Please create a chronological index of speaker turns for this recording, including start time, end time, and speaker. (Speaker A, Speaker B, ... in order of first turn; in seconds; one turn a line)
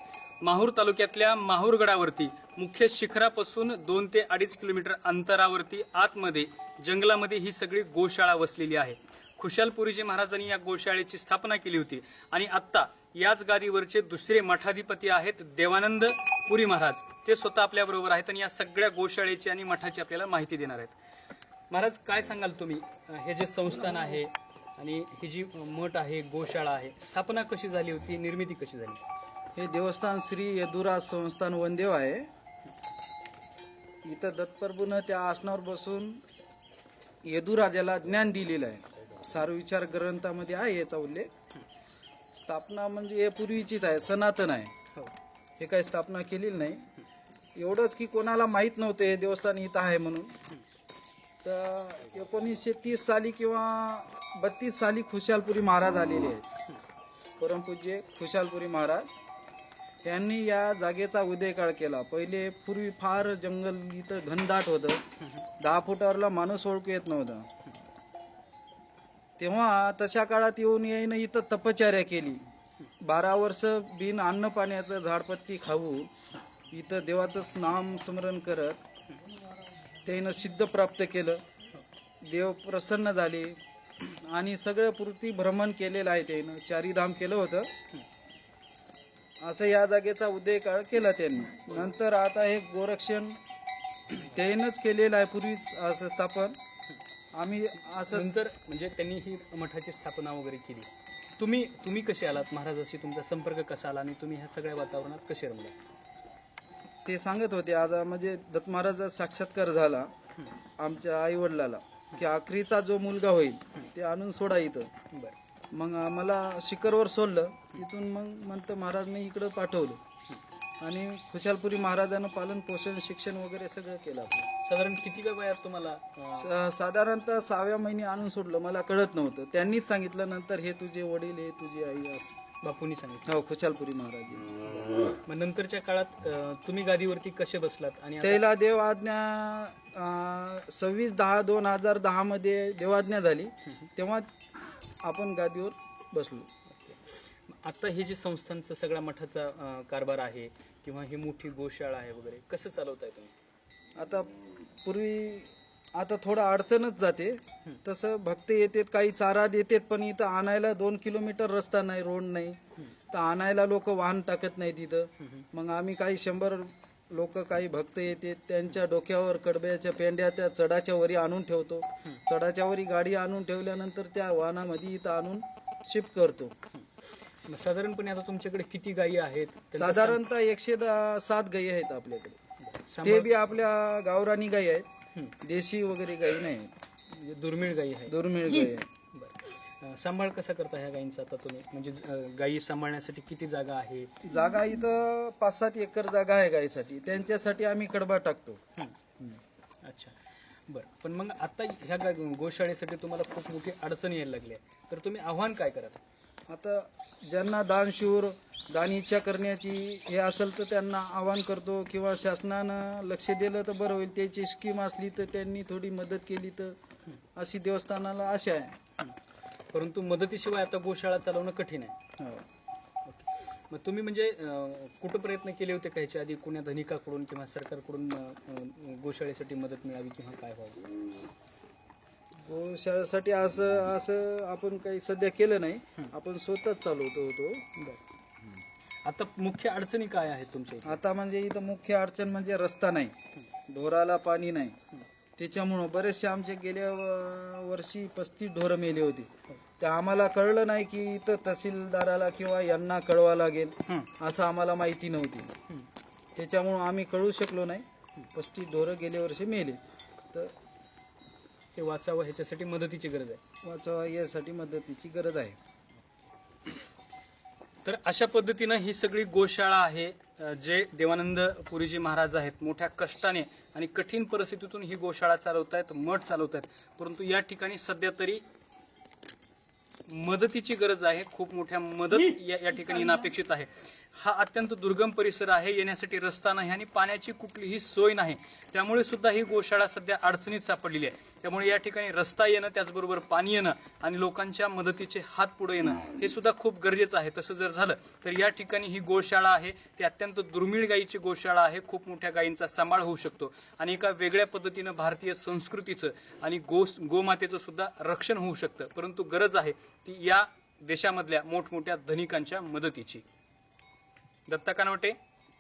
Speaker A: 0.4-21.0
Speaker A: 21.7-29.0
Speaker B: 29.6-32.3
Speaker B: 34.0-36.2
Speaker B: 37.2-41.3
Speaker B: 42.3-44.7
Speaker B: 45.6-46.8
Speaker B: 47.5-50.3
Speaker B: 51.4-56.5
Speaker B: 57.4-59.1
Speaker B: 60.0-65.0
Speaker B: 65.6-67.5
Speaker B: 69.4-72.4
Speaker B: 73.0-76.1
Speaker B: 76.7-78.8
Speaker B: 80.0-81.4
Speaker B: 82.2-87.7
Speaker B: 89.4-93.4
Speaker B: 94.1-96.6
Speaker B: 97.3-98.3
Speaker A: 98.1-105.8
Speaker B: 107.0-110.1
Speaker B: 110.8-114.9
Speaker B: 115.7-120.0
Speaker B: 120.8-124.5
Speaker A: 124.6-126.5
Speaker B: 126.3-132.3
Speaker A: 132.6-133.3
Speaker B: 133.3-134.5
Speaker A: 134.7-138.4
Speaker B: 138.2-144.3
Speaker B: 145.0-146.5
Speaker A: 146.7-153.3
Speaker B: 154.0-162.6
Speaker B: 163.1-176.5
Speaker A: 177.5-180.2
Speaker B: 179.8-182.4
Speaker A: 182.9-183.4
Speaker B: 183.0-184.9
Speaker B: 185.4-186.7
Speaker A: 187.1-188.3
Speaker B: 188.1-188.9
Speaker A: 189.1-194.1
Speaker B: 194.2-198.6
Speaker A: 198.8-200.2
Speaker A: 200.7-206.0
Speaker B: 206.5-216.8
Speaker B: 217.4-218.7
Speaker A: 219.7-222.0
Speaker B: 222.2-222.4
Speaker A: 223.1-230.9
Speaker B: 232.4-237.7
Speaker A: 237.8-238.0
Speaker A: 239.1-241.0
Speaker B: 240.8-243.1
Speaker B: 243.7-244.8
Speaker B: 245.4-255.5
Speaker B: 256.4-259.8
Speaker A: 261.8-263.4
Speaker B: 263.6-265.6
Speaker A: 267.8-278.4
Speaker A: 280.1-313.2
Speaker A: 314.5-315.2